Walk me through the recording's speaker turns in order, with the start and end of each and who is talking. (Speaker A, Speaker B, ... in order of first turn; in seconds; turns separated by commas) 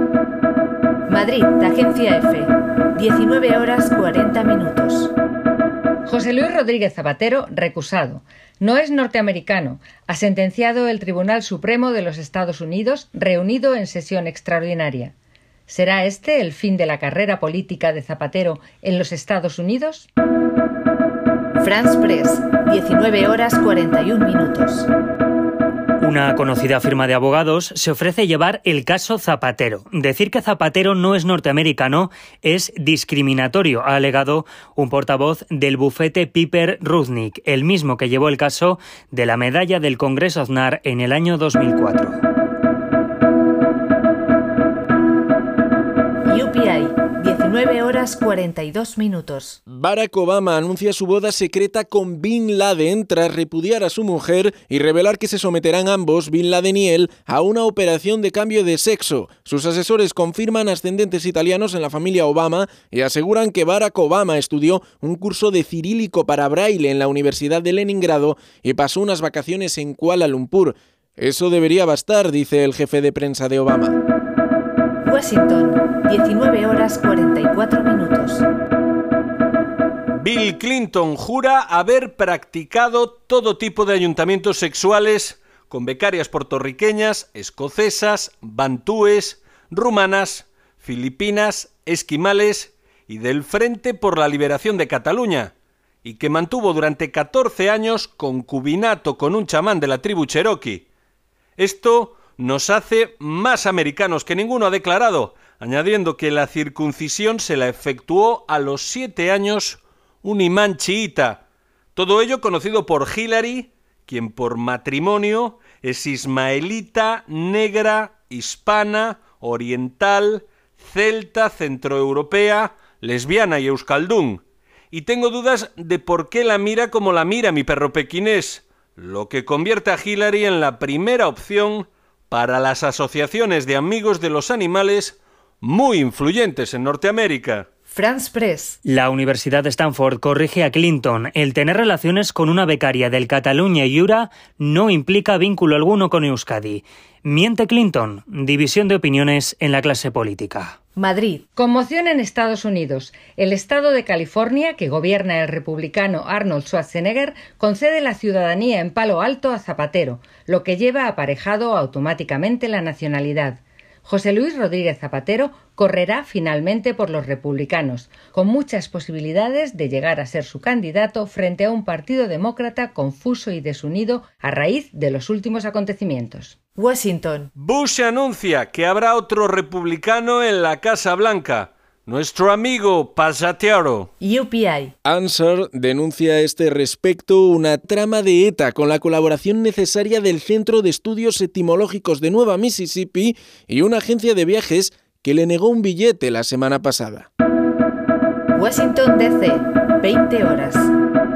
Speaker A: 1.1-5.1, Speaker B: 6.0-15.1, Speaker B: 15.7-20.1, Speaker A: 21.6-24.9, Speaker C: 26.0-42.2, Speaker A: 46.2-49.6, Speaker D: 49.7-74.0, Speaker A: 75.0-78.5, Speaker E: 80.1-95.5, Speaker E: 96.0-100.8, Speaker E: 101.6-111.4, Speaker E: 112.0-137.7, Speaker A: 137.9-138.8, Speaker C: 138.8-150.8, Speaker A: 150.9-151.4, Speaker B: 151.6-176.6, Speaker A: 176.8-177.5, Speaker E: 177.6-184.1, Speaker A: 184.2-184.9, Speaker D: 185.0-197.3, Speaker A: 198.5-200.9